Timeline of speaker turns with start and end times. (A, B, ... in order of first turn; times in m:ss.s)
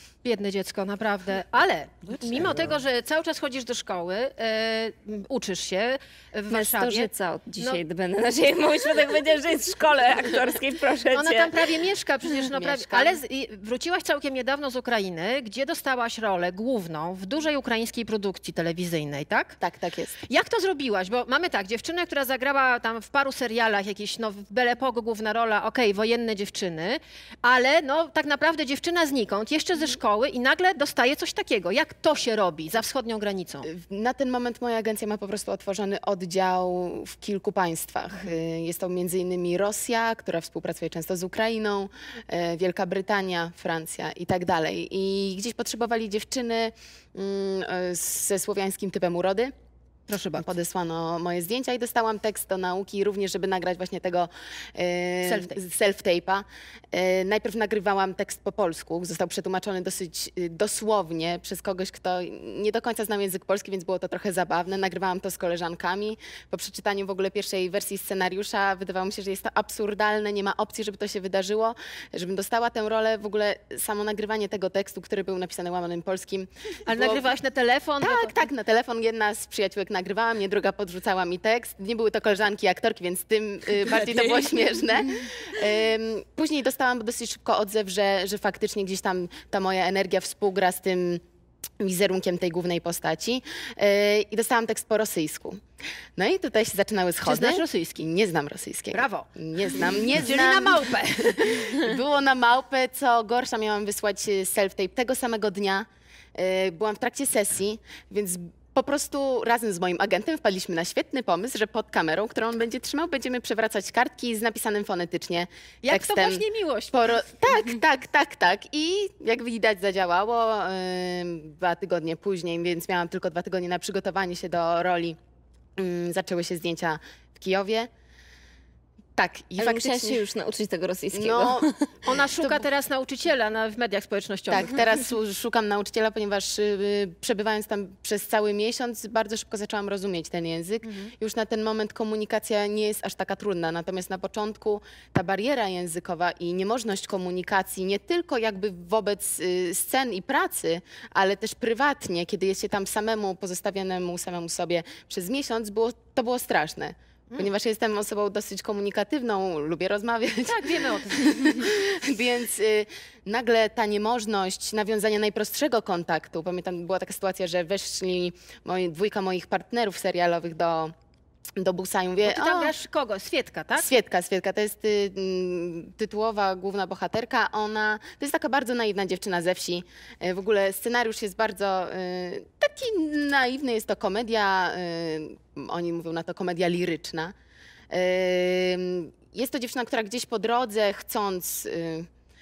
0:00.2-0:07.8 A
0:06.5-0:11.7 B
0:11.1-0:19.6 A
0:12.3-0:13.2 C
0:19.6-0:20.2 C
0:20.3-0:33.7 A
0:33.6-0:49.5 C
0:50.1-0:50.5 A
0:50.3-1:17.3 C
0:55.2-0:55.6 A
1:16.9-1:18.4 A
1:18.0-1:31.2 C
1:31.8-1:35.6 C
1:36.2-2:05.2 C
1:37.2-1:38.0 A
1:38.9-1:42.0 A
1:55.8-1:57.2 A
2:05.8-2:07.9 C
2:09.2-2:10.2 C
2:09.6-2:12.1 B
2:11.1-2:12.6 C
2:12.1-2:14.7 A
2:14.5-2:50.9 C
2:40.5-2:41.7 A
2:51.6-2:52.8 C
2:52.2-2:53.9 A
2:53.7-3:07.3 C
3:07.9-3:12.1 C